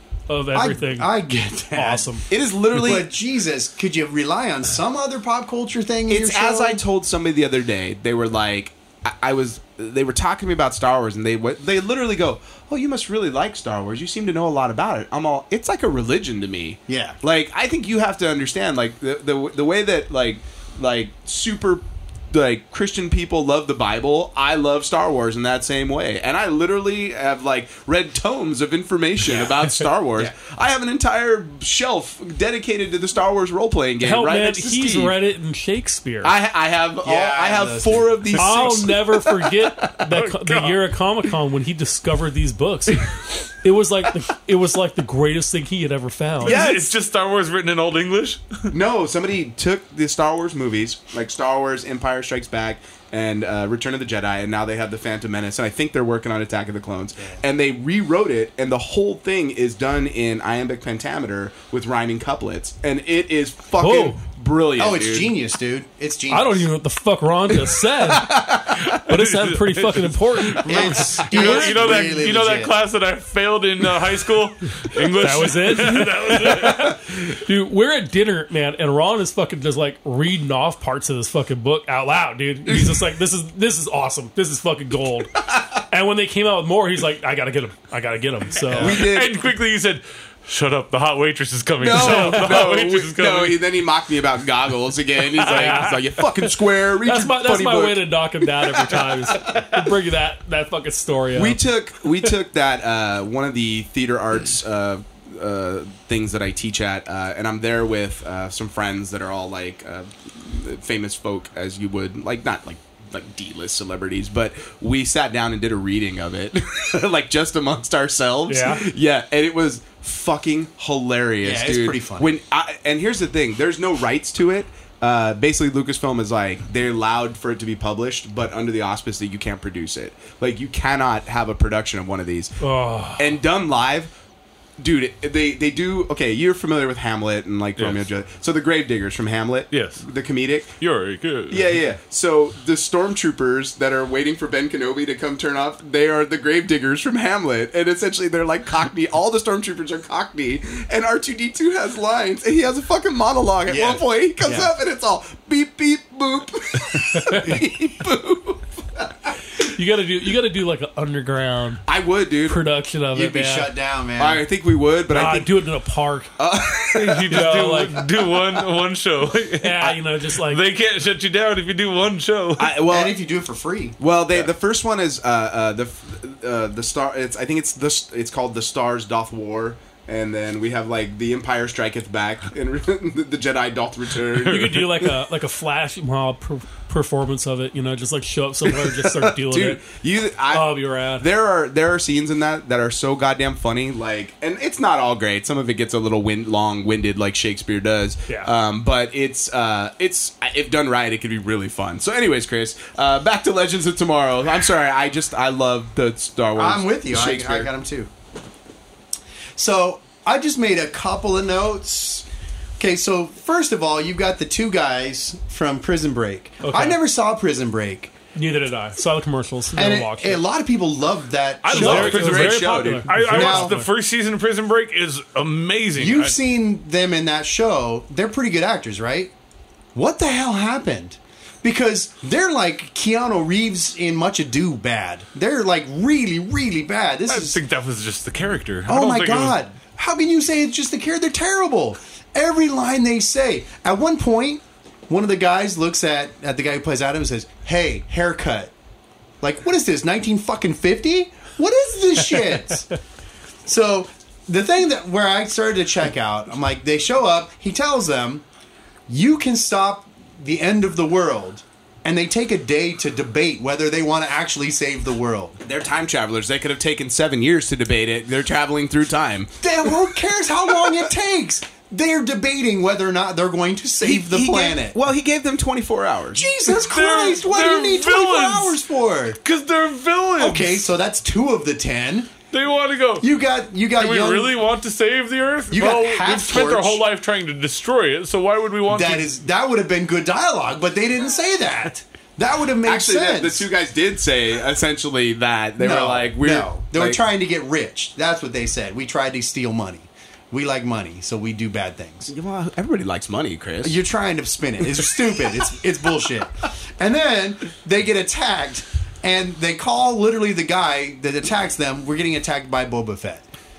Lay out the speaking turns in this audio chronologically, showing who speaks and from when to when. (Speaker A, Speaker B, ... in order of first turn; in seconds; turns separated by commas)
Speaker A: 0.3-1.1, Speaker B: 0.5-2.2, Speaker A: 1.7-2.2, Speaker C: 2.3-3.1, Speaker B: 2.7-6.8, Speaker C: 6.1-35.1, Speaker B: 16.9-17.1, Speaker A: 34.0-36.3, Speaker C: 36.2-40.0, Speaker B: 37.0-38.4, Speaker A: 38.3-46.6, Speaker D: 40.1-40.8, Speaker C: 46.4-46.9, Speaker D: 46.4-48.7, Speaker C: 48.7-65.3, Speaker A: 63.8-64.2, Speaker B: 64.8-66.7, Speaker A: 66.3-68.4, Speaker C: 67.9-69.0, Speaker D: 68.8-76.9, Speaker A: 69.0-72.0, Speaker B: 70.7-72.7, Speaker A: 75.2-89.0, Speaker C: 82.7-83.0, Speaker D: 88.7-93.6, Speaker C: 88.7-89.4, Speaker C: 91.8-99.9, Speaker A: 92.0-92.5, Speaker D: 95.4-96.0, Speaker A: 95.5-96.0, Speaker A: 96.9-101.6, Speaker C: 101.3-132.6, Speaker A: 118.5-118.9, Speaker B: 121.4-122.3, Speaker A: 132.6-133.3, Speaker C: 133.1-134.1, Speaker C: 134.8-140.7, Speaker D: 137.8-138.0, Speaker D: 139.7-140.0, Speaker D: 140.8-141.7, Speaker C: 141.5-159.3, Speaker B: 153.7-154.7, Speaker A: 157.1-157.6, Speaker A: 159.6-161.8, Speaker C: 161.9-162.6, Speaker A: 162.4-163.7, Speaker B: 163.1-164.4, Speaker C: 164.2-165.6, Speaker A: 165.1-166.3, Speaker C: 166.4-167.8, Speaker D: 166.9-172.7, Speaker A: 167.2-168.0, Speaker A: 169.6-170.6, Speaker C: 172.6-173.2, Speaker B: 172.8-173.9, Speaker C: 174.0-185.0, Speaker A: 184.4-189.8, Speaker D: 184.4-184.8, Speaker C: 188.7-207.7, Speaker A: 190.5-191.3, Speaker B: 206.6-208.1, Speaker B: 209.6-212.2, Speaker B: 212.8-218.1, Speaker A: 216.6-217.0, Speaker A: 218.3-220.4, Speaker B: 219.7-222.1, Speaker D: 221.6-226.3, Speaker A: 221.7-223.9, Speaker C: 221.7-223.2, Speaker B: 223.2-223.8, Speaker B: 225.9-229.3, Speaker B: 229.9-237.6, Speaker D: 237.3-239.6, Speaker B: 238.9-248.7, Speaker B: 249.4-252.9, Speaker B: 253.6-258.4, Speaker B: 259.1-265.6, Speaker C: 265.6-270.1, Speaker B: 269.6-274.9, Speaker C: 274.0-276.5, Speaker B: 276.3-279.4, Speaker D: 276.7-278.8, Speaker D: 279.4-280.9, Speaker B: 280.4-282.3, Speaker D: 282.5-283.3, Speaker B: 283.2-284.5, Speaker D: 283.9-289.2, Speaker B: 285.7-287.0, Speaker B: 288.9-293.7, Speaker C: 292.8-297.2, Speaker B: 295.8-302.3, Speaker C: 302.3-304.0, Speaker B: 303.8-313.4